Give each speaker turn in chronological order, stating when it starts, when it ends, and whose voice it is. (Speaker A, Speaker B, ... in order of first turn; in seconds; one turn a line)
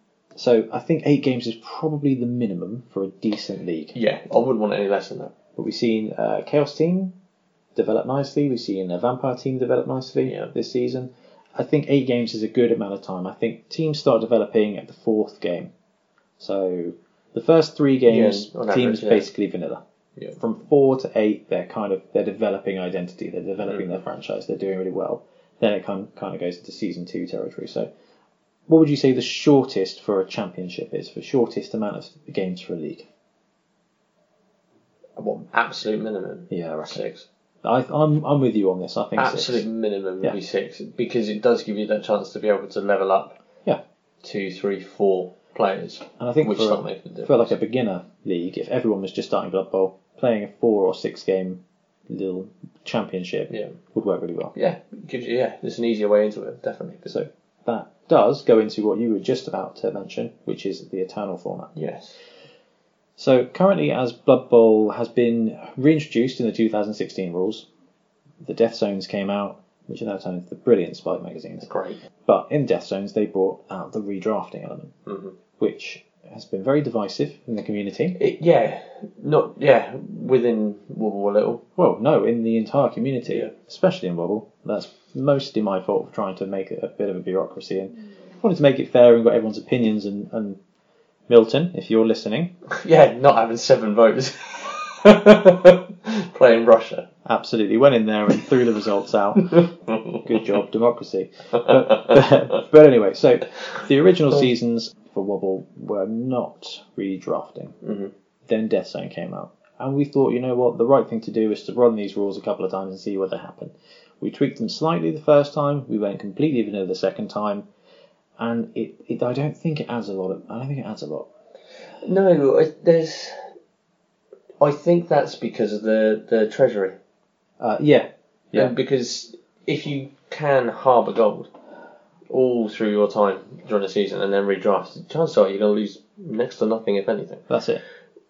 Speaker A: 0.4-4.0
Speaker B: 3.9-5.3
Speaker A: 5.6-7.1
Speaker A: 7.8-15.7
Speaker B: 10.2-10.5
Speaker A: 16.4-19.8
Speaker B: 18.1-19.3
Speaker A: 20.4-27.9
Speaker B: 23.7-23.9
Speaker A: 28.7-33.1
Speaker B: 35.2-37.3
Speaker A: 36.5-37.0
Speaker A: 37.6-39.7
Speaker B: 39.2-43.4
Speaker B: 44.2-47.5
Speaker A: 46.2-54.5
Speaker B: 53.5-53.8
Speaker B: 54.5-57.2
Speaker A: 57.1-61.7
Speaker B: 61.8-62.2
Speaker A: 63.2-67.7
Speaker A: 68.4-71.7
Speaker B: 71.6-72.0
Speaker A: 72.3-75.0
Speaker B: 75.1-75.4
Speaker A: 75.6-78.2
Speaker B: 78.2-81.6
Speaker A: 81.8-90.6
Speaker A: 91.3-92.5
Speaker B: 92.7-97.1
Speaker A: 97.2-107.8
Speaker B: 99.5-100.2
Speaker B: 101.5-102.2
Speaker B: 107.8-108.1
Speaker A: 108.5-117.7
Speaker A: 118.4-121.3
Speaker B: 122.0-123.5
Speaker B: 124.6-127.0
Speaker A: 127.6-128.7
Speaker B: 128.5-131.5
Speaker B: 132.3-137.5
Speaker A: 137.5-137.8